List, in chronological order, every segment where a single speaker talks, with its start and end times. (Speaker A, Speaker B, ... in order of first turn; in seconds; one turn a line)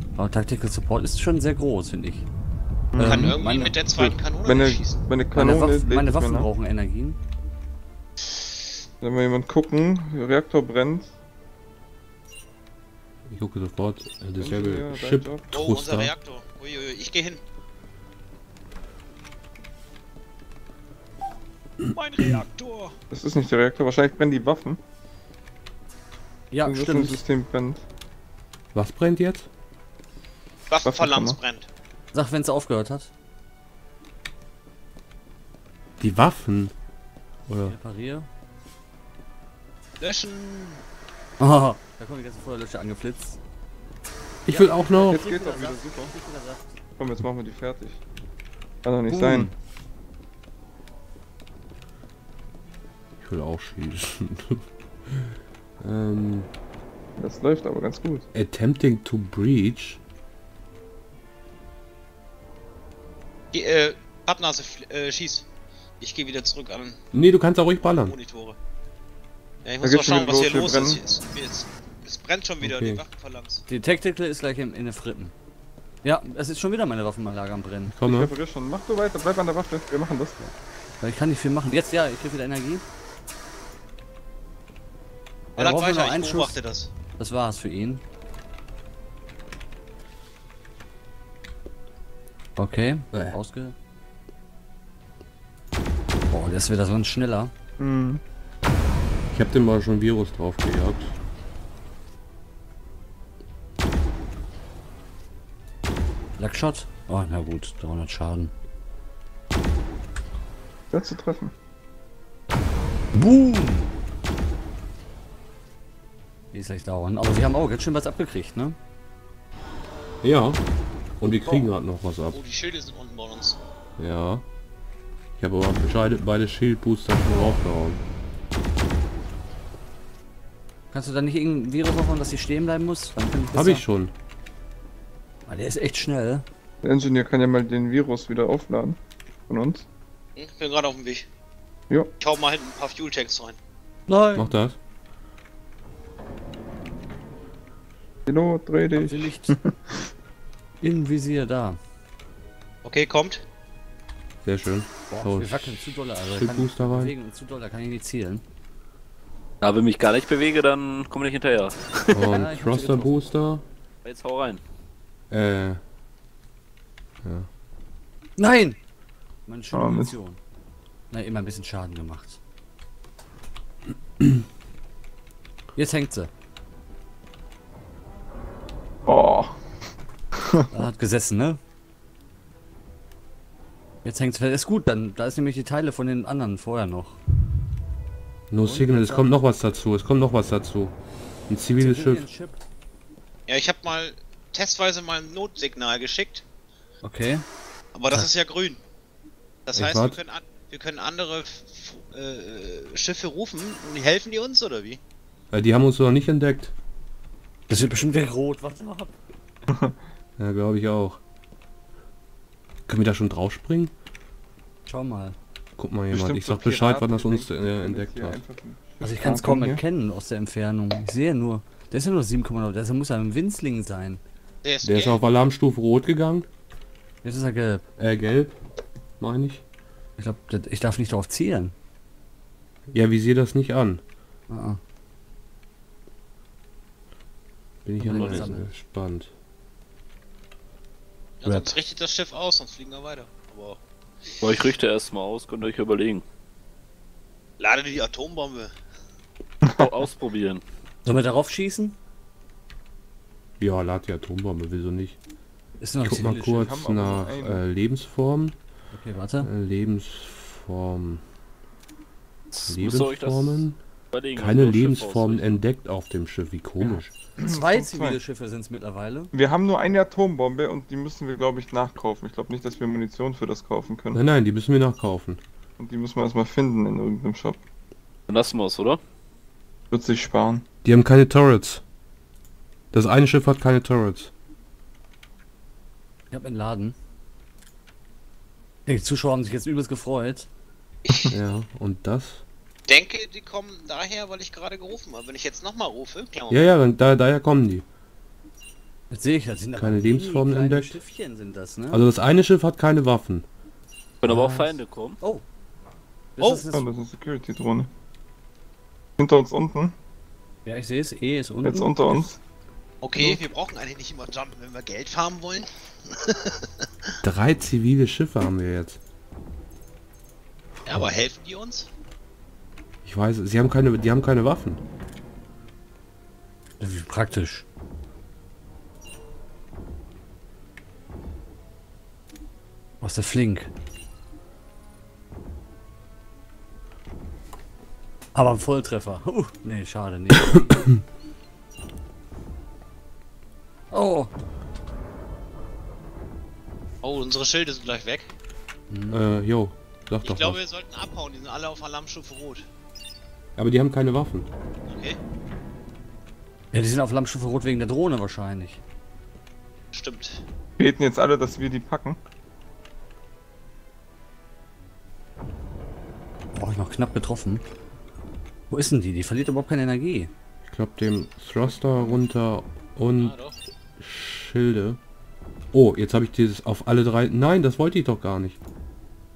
Speaker A: 0.1-2.3
Speaker B: 2.9-3.4
Speaker A: 3.0-3.8
Speaker C: 3.0-5.0
Speaker B: 4.0-6.5
Speaker A: 5.3-7.2
Speaker B: 9.0-11.1
Speaker D: 13.3-16.1
Speaker B: 14.4-15.5
Speaker C: 15.5-17.4
Speaker C: 21.9-22.9
Speaker B: 23.1-24.8
Speaker A: 26.5-27.2
Speaker B: 26.6-27.8
Speaker D: 28.7-29.5
Speaker C: 30.7-31.7
Speaker B: 30.9-31.4
Speaker A: 32.1-33.1
Speaker D: 36.0-36.7
Speaker D: 37.5-37.7
Speaker A: 37.6-38.3
Speaker C: 40.0-40.8
Speaker A: 41.4-43.4
Speaker D: 44.4-45.3
Speaker A: 44.5-46.8
Speaker B: 45.0-46.1
Speaker B: 47.0-48.0
Speaker B: 48.8-49.5
Speaker A: 49.1-49.5
Speaker D: 53.2-56.5
Speaker B: 57.2-58.3
Speaker D: 58.3-60.0
Speaker C: 63.5-65.5
Speaker C: 66.0-67.0
Speaker D: 67.1-68.2
Speaker C: 67.9-68.6
Speaker C: 69.6-73.6
Speaker B: 69.8-71.0
Speaker D: 72.6-73.0
Speaker A: 73.7-75.3
Speaker A: 76.0-77.9
Speaker D: 77.9-78.3
Speaker B: 78.0-80.5
Speaker A: 81.0-82.8
Speaker A: 85.6-86.6
Speaker C: 85.6-86.9
Speaker A: 87.2-88.0
Speaker A: 92.6-93.7
Speaker A: 96.3-97.5
Speaker B: 97.8-98.2
Speaker D: 99.3-101.1
Speaker A: 106.4-108.5
Speaker B: 110.9-111.5
Speaker A: 113.1-113.9
Speaker A: 116.5-118.8
Speaker D: 120.2-120.6
Speaker D: 121.2-122.4
Speaker C: 122.3-123.6
Speaker D: 124.0-124.4
Speaker D: 125.4-128.0
Speaker A: 130.9-133.8
Speaker D: 133.5-134.1
Speaker A: 135.4-136.4
Speaker B: 136.8-139.9
Speaker C: 140.4-141.3
Speaker C: 142.2-143.6
Speaker A: 144.1-144.5
Speaker D: 144.3-144.8
Speaker B: 148.3-150.0
Speaker A: 148.9-149.6
Speaker A: 150.8-151.8
Speaker C: 152.8-153.4
Speaker D: 154.4-157.1
Speaker A: 155.1-158.4
Speaker E: 159.6-162.2
Speaker D: 162.1-163.6
Speaker A: 162.2-163.2
Speaker E: 164.0-164.6
Speaker D: 165.3-165.8
Speaker D: 167.2-167.5
Speaker A: 168.4-168.8
Speaker A: 169.5-170.4
Speaker B: 169.7-170.1
Speaker A: 171.1-172.4
Speaker A: 175.8-176.3
Speaker B: 179.1-179.6
Speaker B: 180.4-180.7
Speaker A: 180.7-181.6
Speaker A: 184.1-187.2
Speaker D: 188.5-190.9
Speaker A: 188.6-189.3
Speaker D: 191.5-192.2
Speaker A: 191.8-192.6
Speaker C: 193.5-196.4
Speaker A: 197.0-197.4
Speaker C: 197.9-198.8
Speaker C: 199.7-205.0
Speaker D: 199.7-200.2
Speaker D: 205.5-206.7
Speaker A: 207.7-209.1
Speaker B: 209.7-209.9
Speaker D: 210.4-211.2
Speaker D: 212.9-213.9
Speaker A: 214.9-215.4
Speaker D: 215.8-218.4
Speaker B: 216.1-219.8
Speaker A: 219.0-224.2
Speaker C: 224.6-225.2
Speaker D: 224.8-226.5
Speaker A: 227.2-227.9
Speaker D: 228.0-228.6
Speaker D: 229.2-229.6
Speaker A: 230.2-231.7
Speaker D: 232.9-234.0
Speaker A: 234.5-234.8
Speaker D: 237.8-239.3
Speaker A: 238.0-238.7
Speaker C: 241.4-243.8
Speaker D: 241.4-241.7
Speaker E: 244.4-246.2
Speaker C: 247.6-248.7
Speaker E: 249.7-250.6
Speaker A: 251.1-252.0
Speaker D: 253.6-255.2
Speaker A: 255.8-256.7
Speaker D: 256.0-258.6
Speaker B: 256.5-257.6
Speaker A: 258.9-259.5
Speaker D: 259.4-261.2
Speaker E: 262.5-265.4
Speaker D: 262.7-263.8
Speaker D: 264.4-267.1
Speaker A: 266.8-269.3
Speaker B: 267.4-268.2
Speaker B: 269.3-274.2
Speaker D: 274.1-275.4
Speaker B: 275.8-277.6
Speaker E: 278.3-279.0
Speaker B: 279.9-280.6
Speaker D: 280.8-281.8
Speaker D: 282.9-284.3
Speaker A: 286.3-286.9
Speaker A: 288.9-290.5
Speaker C: 291.1-291.3
Speaker D: 291.3-292.4
Speaker C: 292.9-296.7
Speaker D: 296.5-297.9
Speaker A: 299.1-302.1
Speaker D: 299.8-301.0
Speaker D: 301.9-303.4
Speaker E: 304.2-305.2
Speaker A: 304.2-305.4
Speaker A: 306.4-306.9
Speaker C: 306.4-306.6
Speaker B: 306.7-307.9
Speaker B: 309.2-309.9
Speaker A: 310.6-312.3
Speaker B: 311.6-312.4
Speaker C: 313.0-316.7
Speaker D: 317.2-319.0
Speaker C: 320.9-321.9
Speaker D: 323.1-324.8
Speaker A: 326.8-327.6
Speaker A: 333.0-333.7
Speaker A: 338.3-340.8
Speaker A: 343.9-344.3
Speaker C: 347.0-348.3
Speaker A: 348.9-349.3
Speaker D: 349.1-350.6
Speaker C: 350.2-352.7
Speaker D: 353.6-354.5
Speaker C: 354.9-355.2
Speaker A: 356.7-358.8
Speaker C: 359.9-360.4
Speaker B: 360.8-362.2
Speaker A: 366.5-367.6
Speaker A: 368.7-370.3
Speaker D: 370.7-373.4
Speaker B: 371.6-372.2
Speaker C: 373.2-373.6
Speaker D: 374.0-375.0
Speaker D: 375.7-378.6